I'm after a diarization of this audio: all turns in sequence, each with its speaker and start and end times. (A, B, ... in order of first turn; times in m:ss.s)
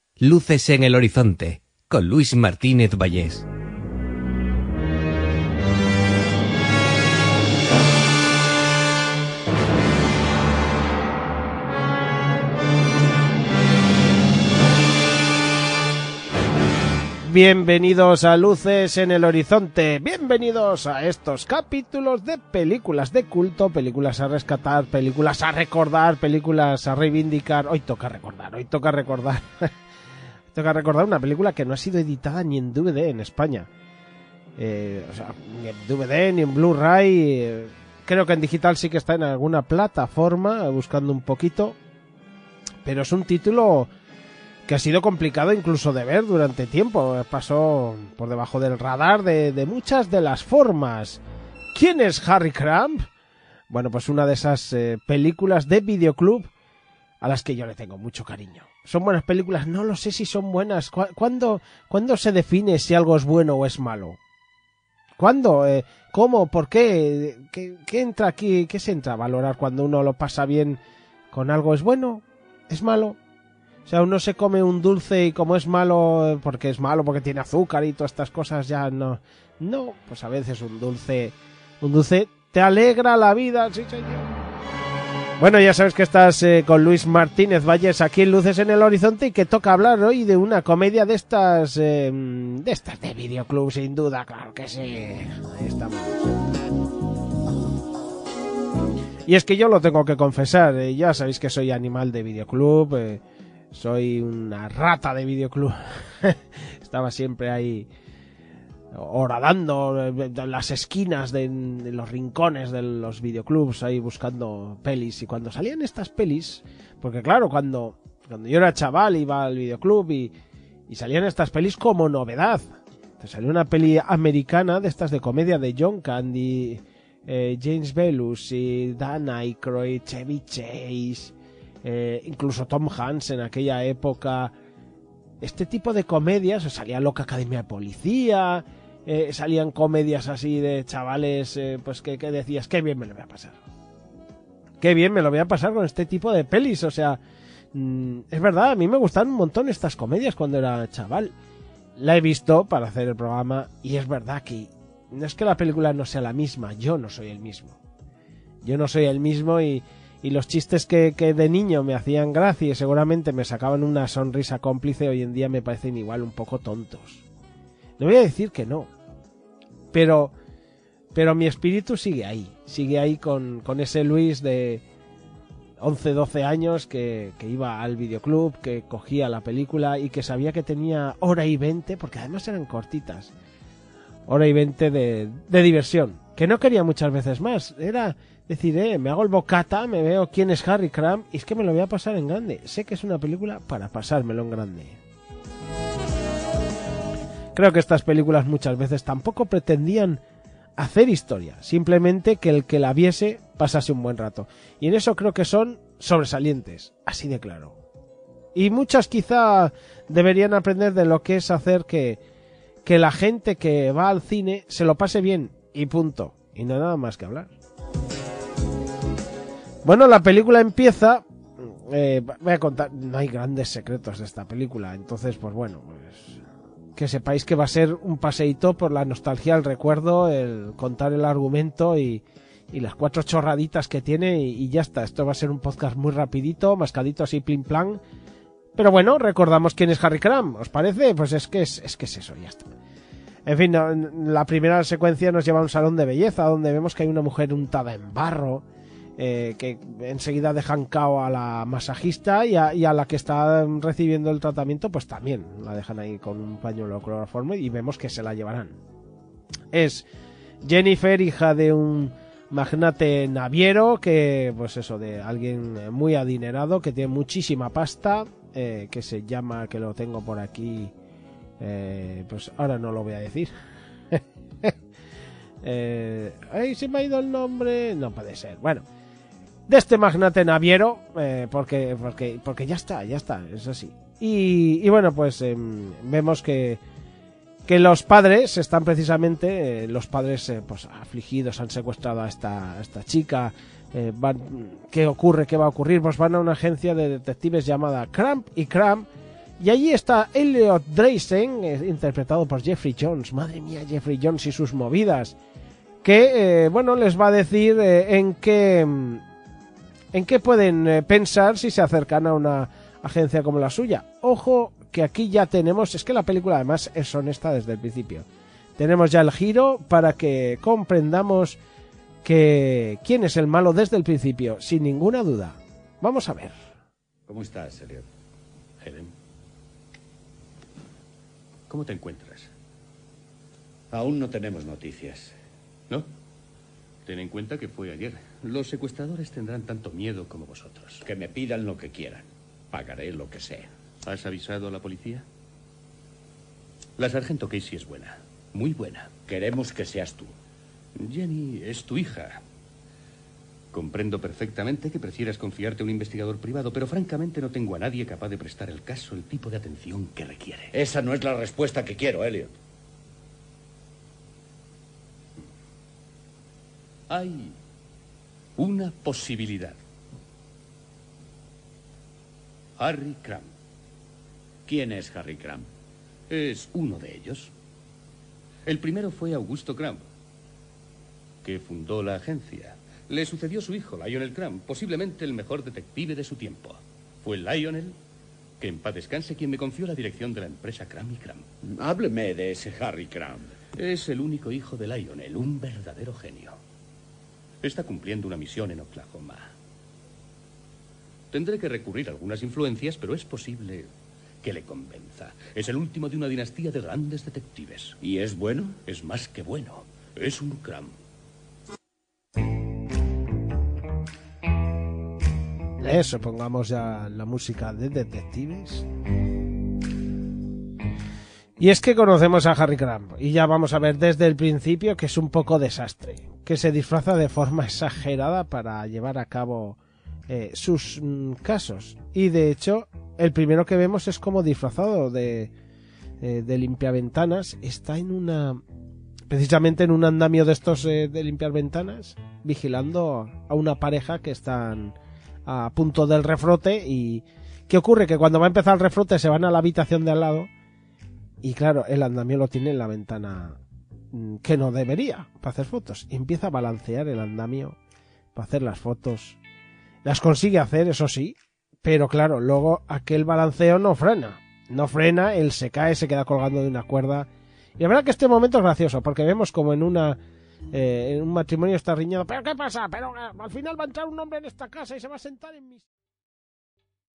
0:00.2-0:03.4 A
0:17.2-0:29.7 B
0:30.5-0:33.7 B
0:34.6-0:41.8 B
0:42.8-0:43.9 B
0:44.6-0:51.2 B
0:51.7-0:53.0 B
0:53.7-0:56.5 B
0:57.2-1:04.2 B
1:05.2-1:10.8 B
1:11.3-1:13.2 B
1:13.8-1:24.3 B
1:25.4-1:36.3 B
1:39.2-1:43.2 B
1:43.7-1:47.9 B
1:48.9-2:00.3 B
2:00.9-2:02.6 B
2:03.2-2:14.5 B
2:15.4-2:23.6 B
2:24.8-2:27.2 B
2:27.7-2:31.3 B
2:32.0-2:37.8 B
2:38.6-2:47.2 B
2:48.0-2:48.9 B
2:49.9-2:50.3 B
2:51.1-2:54.8 B
2:55.8-3:03.3 B
3:04.3-3:15.0 B
3:17.5-3:20.2 B
3:20.8-3:27.8 B
3:28.5-3:32.2 B
3:32.8-3:37.5 B
3:39.8-3:46.4 B
3:46.9-3:58.0 B
3:58.8-4:02.7 B
4:03.4-4:08.6 B
4:09.2-4:18.8 B
4:19.7-4:20.0 B
4:20.6-4:30.9 B
4:31.6-4:33.5 B
4:34.1-4:34.7 B
4:35.6-4:38.8 B
4:39.7-4:46.8 B
4:47.6-4:59.1 B
4:59.6-5:05.4 B
5:06.0-5:09.2 B
5:10.1-5:21.6 B
5:22.2-5:26.6 B
5:27.3-5:28.1 C
5:28.8-5:29.1 D
5:31.7-5:32.5 D
5:33.9-5:35.3 C
5:37.0-5:41.0 D
5:41.0-5:43.7 C
5:44.0-5:45.2 D
5:47.0-5:49.1 D
5:49.2-5:50.3 C
5:51.0-5:52.4 D
5:53.7-6:00.7 D
6:00.7-6:02.5 C
6:07.1-6:07.5 D
6:08.6-6:09.8 D
6:12.8-6:13.5 D
6:14.6-6:15.6 C
6:16.3-6:17.5 D
6:18.6-6:20.0 D
6:21.4-6:27.9 D
6:28.6-6:31.4 D
6:31.7-6:33.6 C
6:33.7-6:36.6 D
6:37.6-6:39.5 D
6:41.3-6:43.9 D
6:44.4-6:48.0 D
6:48.0-6:48.8 C
6:48.8-6:50.9 D
6:55.8-6:58.8 B
7:01.6-7:15.5 B
7:16.2-7:18.6 B
7:19.3-7:30.5 B
7:31.4-7:33.6 B
7:34.1-7:37.8 B
7:38.3-7:39.4 B
7:40.0-7:50.2 B
7:50.7-7:55.8 B